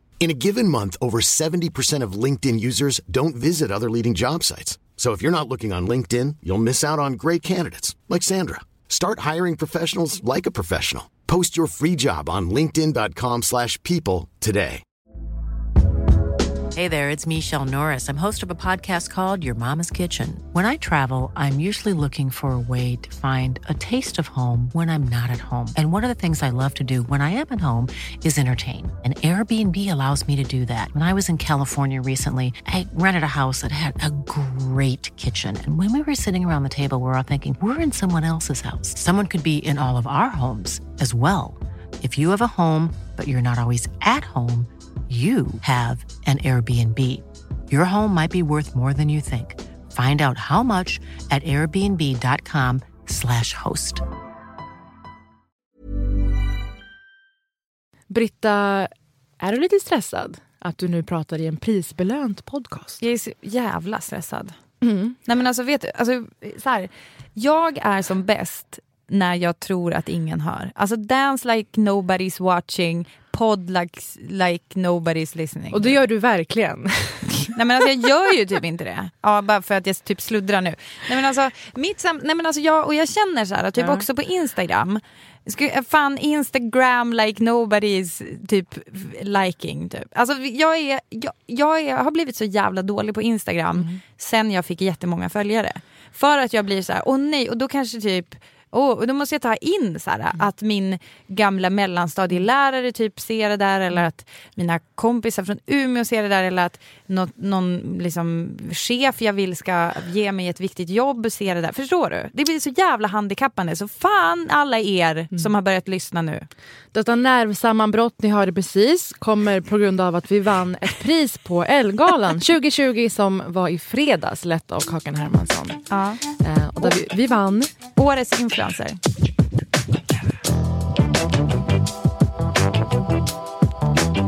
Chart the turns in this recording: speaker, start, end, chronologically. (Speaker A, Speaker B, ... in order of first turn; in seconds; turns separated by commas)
Speaker A: 0.2-14.8, Speaker B: 16.8-54.0, Speaker C: 58.1-63.0, Speaker D: 63.0-64.5, Speaker C: 64.8-65.2, Speaker D: 65.3-76.0, Speaker C: 75.7-77.9, Speaker D: 77.5-116.5, Speaker C: 83.8-84.0, Speaker C: 116.9-125.8, Speaker D: 125.9-126.2, Speaker C: 126.4-127.7, Speaker D: 128.0-129.0